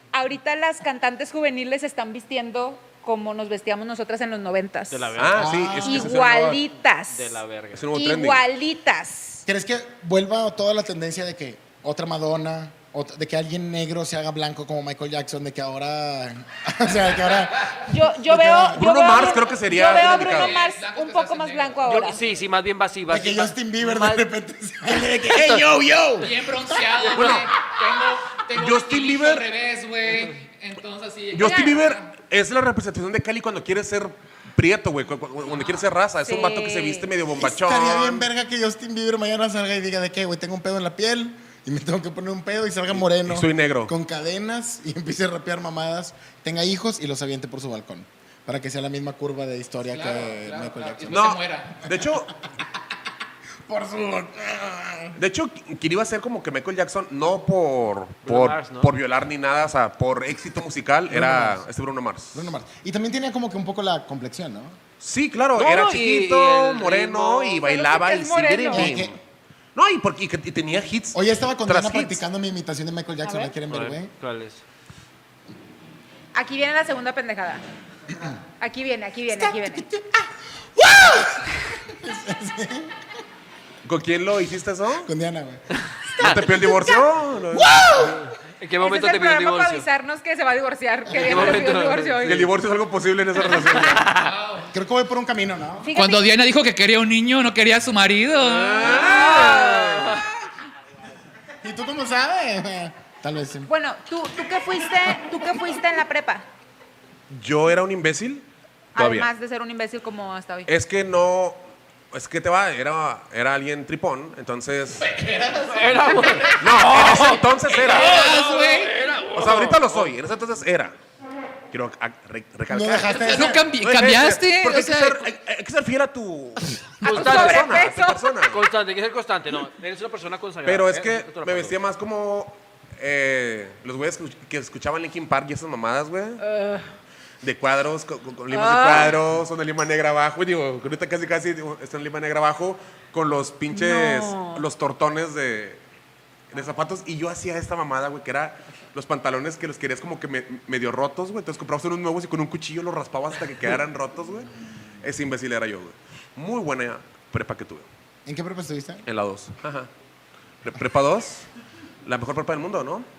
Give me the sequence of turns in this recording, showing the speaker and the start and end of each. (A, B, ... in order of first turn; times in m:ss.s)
0:00.1-0:05.2 A
0:04.9-0:05.8 B
0:05.2-0:06.6 C
0:05.4-0:06.2 D
0:05.8-0:07.4 A
0:07.1-0:07.9 B
0:07.7-0:08.5 C
0:07.9-0:09.4 A
0:09.5-0:18.8 D
0:17.8-0:22.2 A
0:18.7-0:20.5 C
0:19.7-0:22.1 E
0:21.9-0:24.3 B
0:23.1-0:26.3 D
0:24.9-0:25.8 B
0:26.2-0:32.1 E
0:27.2-0:27.4 B
0:27.2-0:27.5 C
0:28.5-0:29.5 C
0:31.3-0:38.3 C
0:31.4-0:31.8 A
0:36.2-0:37.1 A
0:37.3-0:51.4 D
0:42.9-0:43.9 C
0:49.9-0:51.9 E
0:51.1-0:52.3 C
0:53.7-0:55.2 D
0:55.2-1:02.5 C
0:58.2-0:58.9 B
1:01.1-1:01.6 D
1:02.3-1:04.8 D
1:05.0-1:09.2 C
1:05.6-1:07.7 B
1:07.6-1:09.0 A
1:08.7-1:09.2 D
1:09.8-1:12.2 C
1:11.1-1:14.1 D
1:13.2-1:13.5 A
1:13.7-1:14.6 B
1:16.4-1:17.6 A
1:18.6-1:19.9 A
1:19.3-1:23.0 D
1:23.8-1:25.1 C
1:25.0-1:27.0 D
1:25.8-1:26.4 B
1:26.2-1:28.2 C
1:27.5-1:28.2 D
1:28.0-1:29.9 B
1:28.8-1:32.5 A
1:31.1-1:32.4 B
1:31.2-1:31.6 C
1:32.2-1:34.2 C
1:33.5-1:34.3 B
1:34.1-1:34.7 E
1:34.7-1:35.9 D
1:35.8-1:36.2 A
1:35.9-1:39.2 E
1:38.4-1:39.8 C
1:38.8-1:40.2 B
1:38.8-1:40.1 A
1:41.6-1:43.7 D
1:43.7-1:46.5 A
1:47.3-1:49.3 C
1:49.0-1:50.7 A
1:50.7-1:55.1 C
1:55.0-1:56.6 E
1:55.7-2:00.1 B
1:56.6-1:58.2 C
1:57.7-1:59.0 E
1:59.3-2:01.0 C
2:01.7-2:08.6 C
2:02.7-2:03.7 D
2:03.1-2:05.2 E
2:07.0-2:07.9 B
2:07.0-2:08.3 A
2:08.5-2:11.8 B
2:10.6-2:16.4 C
2:17.4-2:25.8 C
2:18.5-2:19.2 A
2:23.7-2:24.6 A
2:26.5-2:37.9 C
2:38.3-2:39.1 D
2:39.1-2:39.9 C
2:40.6-2:41.5 C
2:42.0-2:43.1 C